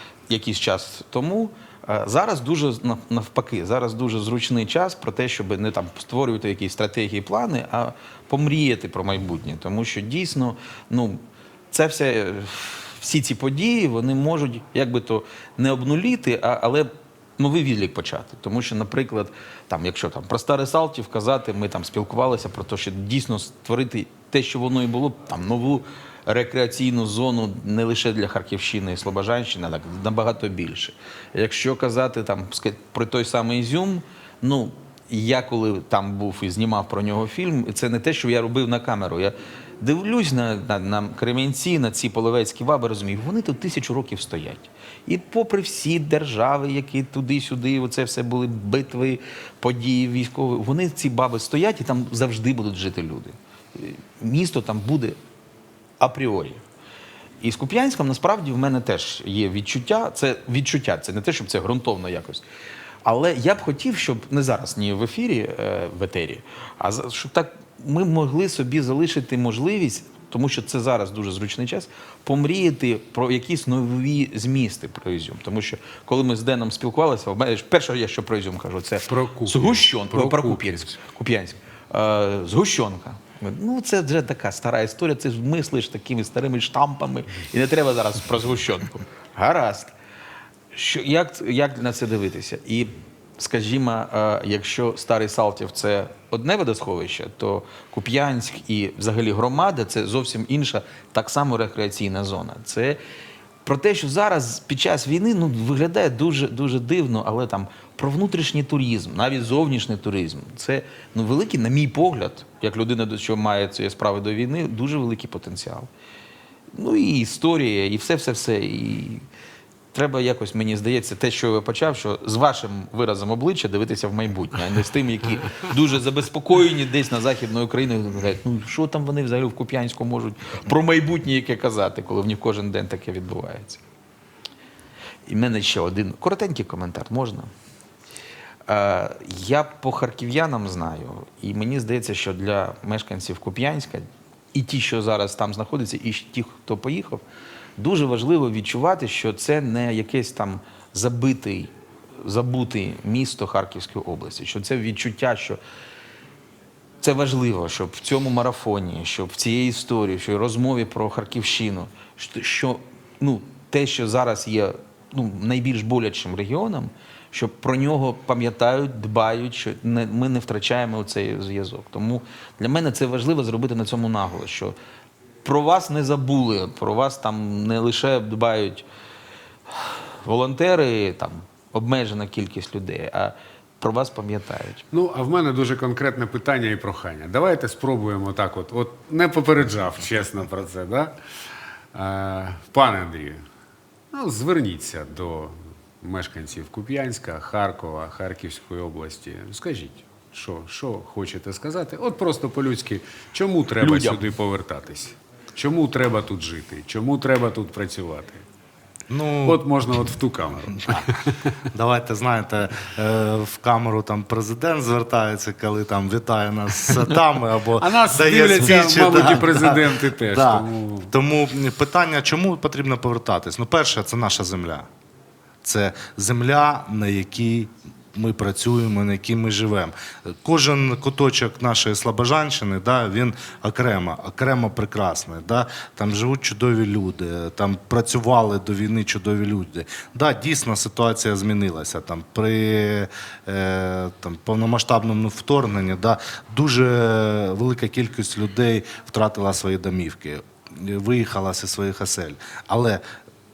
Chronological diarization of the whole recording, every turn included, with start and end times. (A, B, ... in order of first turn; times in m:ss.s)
0:00.3-0:55.2 A
0:56.0-0:56.6 A
0:57.4-1:02.4 A
1:03.0-1:29.9 A
1:19.1-1:20.9 B
1:30.7-1:43.0 A
1:43.6-1:55.9 A
1:56.7-1:59.2 A
1:59.9-2:13.8 A
2:15.3-2:17.5 A
2:18.7-2:27.2 A
2:27.8-2:35.6 A
2:37.0-2:54.8 A
2:55.4-2:58.8 A
2:59.7-3:04.8 A
3:04.9-3:11.2 B
3:11.9-3:13.4 B
3:14.1-3:28.4 B
3:23.8-3:24.2 A
3:29.1-3:29.6 C
3:29.4-3:31.6 B
3:31.7-3:44.9 C
3:37.8-3:41.1 B
3:45.6-4:13.0 C